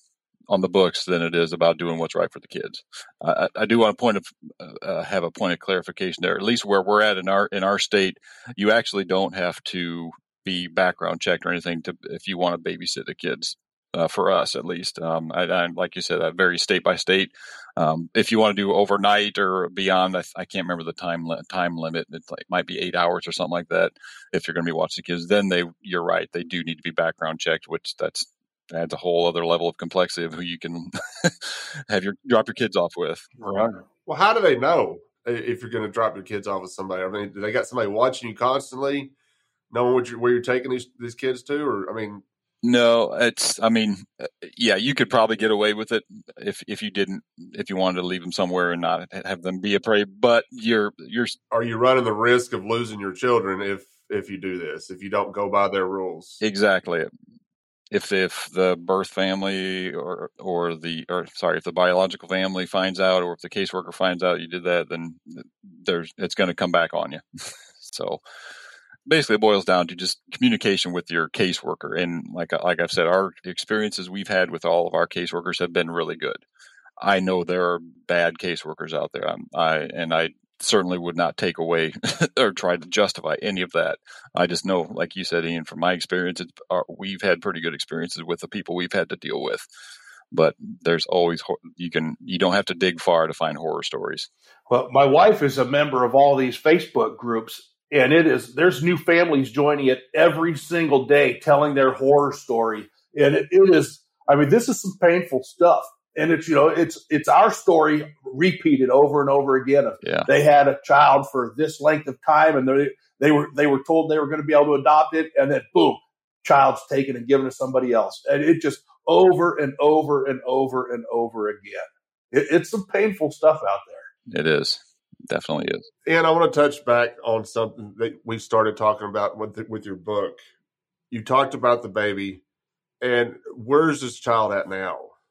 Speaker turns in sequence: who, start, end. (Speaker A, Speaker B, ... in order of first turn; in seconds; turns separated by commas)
Speaker A: 0.5-33.3, Speaker B: 33.4-33.8, Speaker C: 34.1-39.1, Speaker C: 39.7-42.2, Speaker A: 42.6-51.4, Speaker C: 51.5-56.4, Speaker A: 56.4-57.1, Speaker A: 57.9-67.2, Speaker A: 67.8-68.2, Speaker A: 69.1-76.4, Speaker A: 77.0-89.6, Speaker A: 90.3-94.3, Speaker B: 94.7-124.1, Speaker A: 110.0-110.3, Speaker A: 124.3-125.8, Speaker C: 126.1-130.4, Speaker C: 131.1-132.4, Speaker C: 133.0-135.1